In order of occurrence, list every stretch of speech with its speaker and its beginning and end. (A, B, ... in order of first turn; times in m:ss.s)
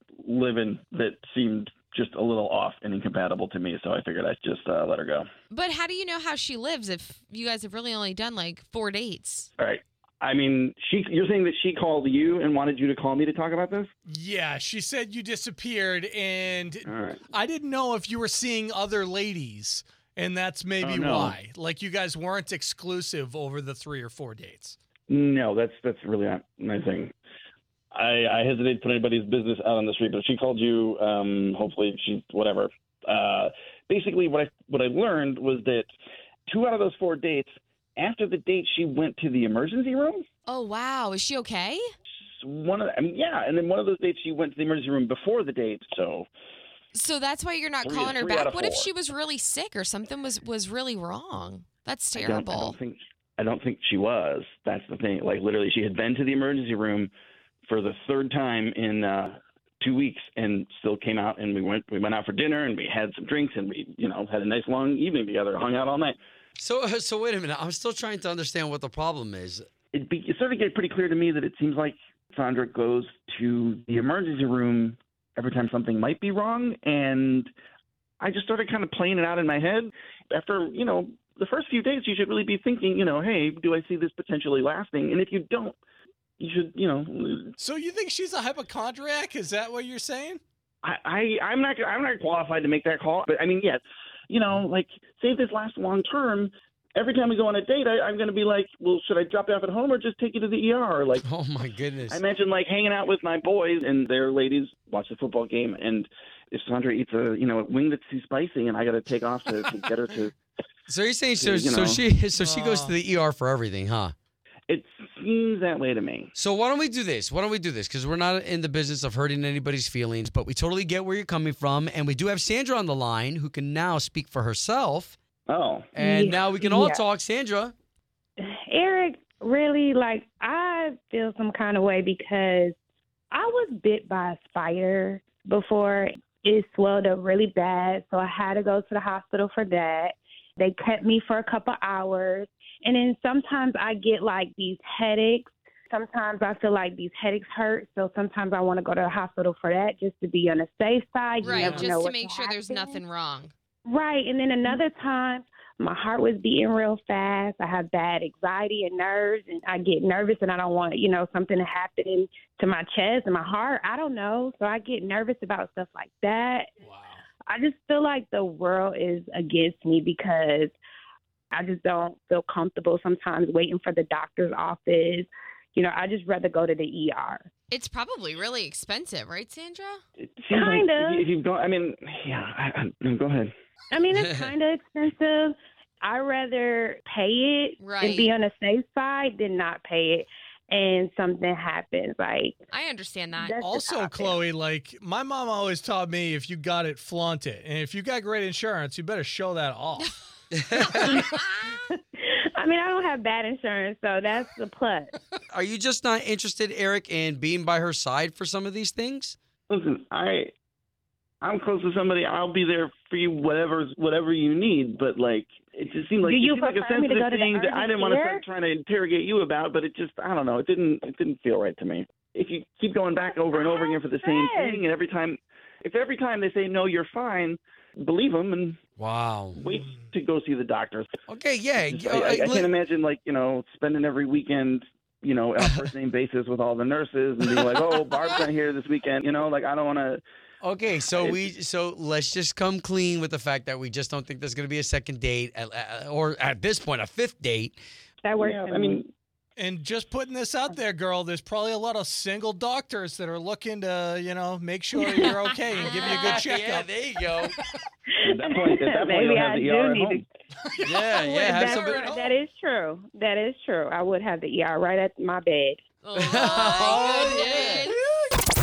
0:00.2-0:05.3 A
0:05.5-0:09.5 B
0:09.6-0:13.9 A
0:14.1-0:24.8 C
0:16.8-0:17.2 A
0:20.8-0:21.4 A
0:25.1-0:27.1 A
0:27.9-0:35.9 A
0:36.5-0:40.2 A
0:40.5-0:41.8 B
0:42.4-0:46.3 A
0:46.9-0:52.8 B
0:47.8-0:48.9 A
0:52.1-0:57.1 A
0:57.7-1:06.2 A
1:06.6-1:09.6 D
1:09.9-1:17.5 A
1:18.2-1:25.8 A
1:26.4-1:27.5 A
1:27.6-1:30.4 C
1:30.8-1:41.2 A
1:41.2-1:42.2 D
1:42.1-1:50.3 A
1:50.9-1:54.1 D
1:51.4-1:52.0 A
1:52.3-1:52.9 C
1:54.7-1:56.3 A
1:56.4-2:05.2 D
2:05.5-2:05.9 A
2:05.9-2:07.7 D
2:06.0-2:07.0 E
2:08.4-2:12.7 E
2:13.3-2:33.0 E
2:31.4-2:33.5 B
2:31.5-2:31.9 C
2:33.9-2:46.7 E
2:46.8-2:47.2 C
2:47.5-2:50.7 E
2:51.5-2:57.4 E
2:57.7-3:00.0 B
3:00.2-3:03.5 A
3:00.5-3:01.2 E
3:03.9-3:12.6 E
3:04.1-3:04.5 D
3:07.8-3:08.3 B
3:12.7-3:13.6 B
3:13.4-3:14.4 E
3:13.6-3:20.1 C
3:20.5-3:21.1 D
3:20.9-3:25.1 E
3:25.5-3:29.4 D
3:29.7-3:30.5 A
3:31.4-3:48.8 A
3:36.2-3:38.4 E
3:43.5-3:44.8 E
3:49.0-3:49.6 D
3:49.6-3:51.1 A
3:51.3-3:52.7 D
3:51.8-4:00.2 A
4:00.6-4:07.8 D
4:08.2-4:09.0 E
4:08.4-4:09.1 A
4:09.6-4:16.9 C
4:15.0-4:15.3 E
4:15.9-4:17.6 D
4:18.1-4:20.2 E
4:18.2-4:20.2 A
4:20.8-4:22.1 D
4:21.1-4:25.8 E
4:21.7-4:22.3 C
4:26.0-4:28.0 B
4:26.1-4:27.9 D
4:28.1-4:28.4 C